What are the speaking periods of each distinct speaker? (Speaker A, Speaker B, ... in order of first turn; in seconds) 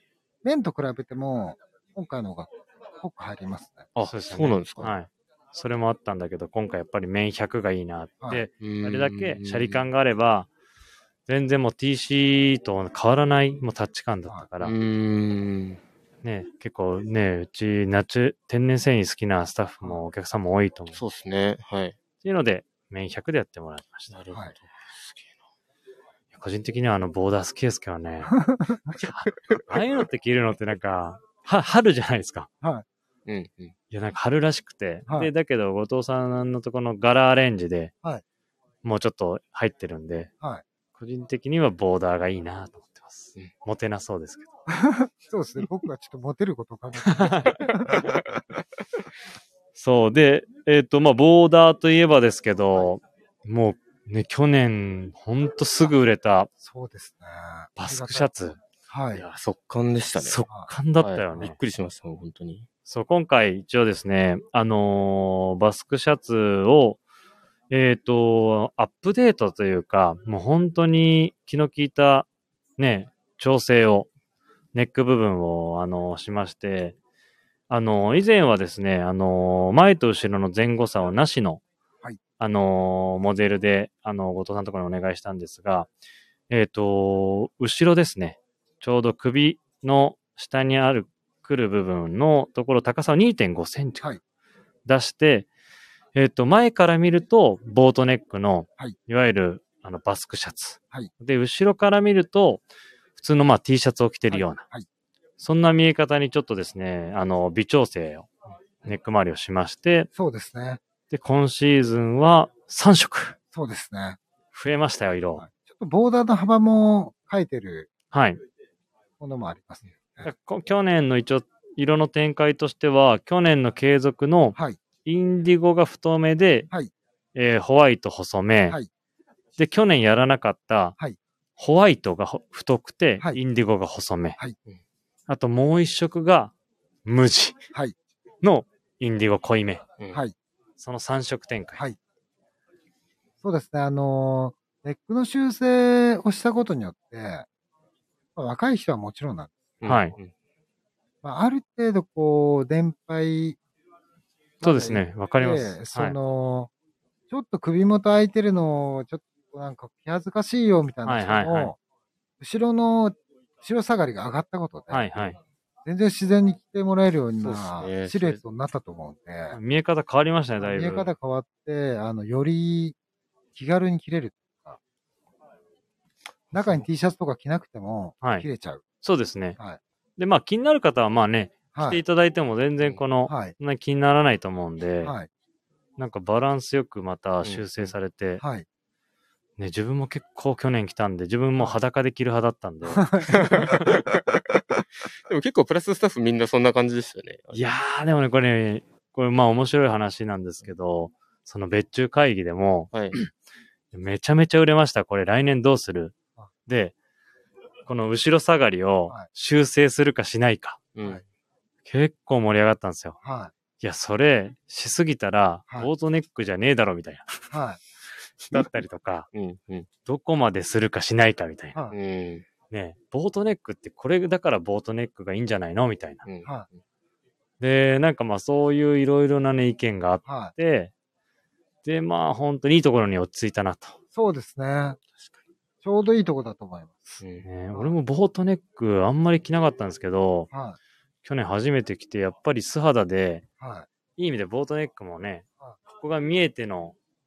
Speaker A: 0.4-3.9, 8.2-8.5, 28.3-28.9, 44.7-48.2, 56.6-59.2, 104.3-104.9, 110.2-110.8, 113.5-114.2, 115.4-117.9, 119.2-120.3, 143.4-147.5, 148.4-149.8, 151.2-153.6, 154.6-156.7, 157.3-161.8, 162.4-165.3, 165.8-169.6, 170.6-173.0, 173.6-174.8, 176.5-178.8, 181.7-182.0, 183.3-183.6, 185.0-185.3, 188.4-188.7, 192.9-193.7, 213.2-213.5, 217.5-217.8, 230.2-230.5, 234.1-235.0, 235.8-237.2, 240.5-240.8, 243.6-243.9
Speaker B: 4.0-4.9, 8.6-9.8, 14.6-15.8, 20.9-22.0, 24.1-25.4, 29.0-29.7, 33.3-33.8, 59.1-60.4, 61.0-62.7, 149.8-150.3, 167.4-168.4, 187.4-187.7, 193.3-194.4, 195.3-197.6, 202.9-203.2, 210.9-211.2, 219.3-219.9, 221.9-222.5, 226.2-226.7, 237.2-237.5
Speaker C: 4.1-10.5, 11.3-14.7, 16.2-21.0, 22.2-24.1, 26.3-28.4, 29.0-32.5, 33.9-37.9, 38.8-40.3, 41.0-44.5, 47.0-47.6, 49.8-56.5, 57.8-58.6, 60.2-61.6, 62.9-67.0, 67.7-72.3, 72.8-74.1, 74.7-77.0, 77.7-81.6, 82.4-85.9, 86.5-94.1, 94.9-95.5, 96.2-102.6, 103.2-104.6, 105.4-108.3, 108.8-110.1, 111.1-113.4, 114.5-115.4, 118.1-118.4, 120.2-126.7, 127.3-128.8, 129.6-131.0, 131.6-134.4, 135.3-136.5, 137.1-137.6, 138.4-139.8, 140.8-141.8, 149.8-150.2, 154.6-156.2, 161.1-161.7, 164.9-165.4, 169.5-171.1, 178.2-178.5, 179.0-179.6, 180.2-185.2, 186.0-188.4, 189.6-193.9, 197.5-203.3, 203.9-206.1, 206.7-206.9, 207.9-210.8, 211.9-213.2, 213.8-217.4, 218.5-219.3, 220.1-221.8, 222.7-226.2, 227.6-230.9, 231.8-234.0, 237.4-240.5, 241.2-243.4, 244.2-247.0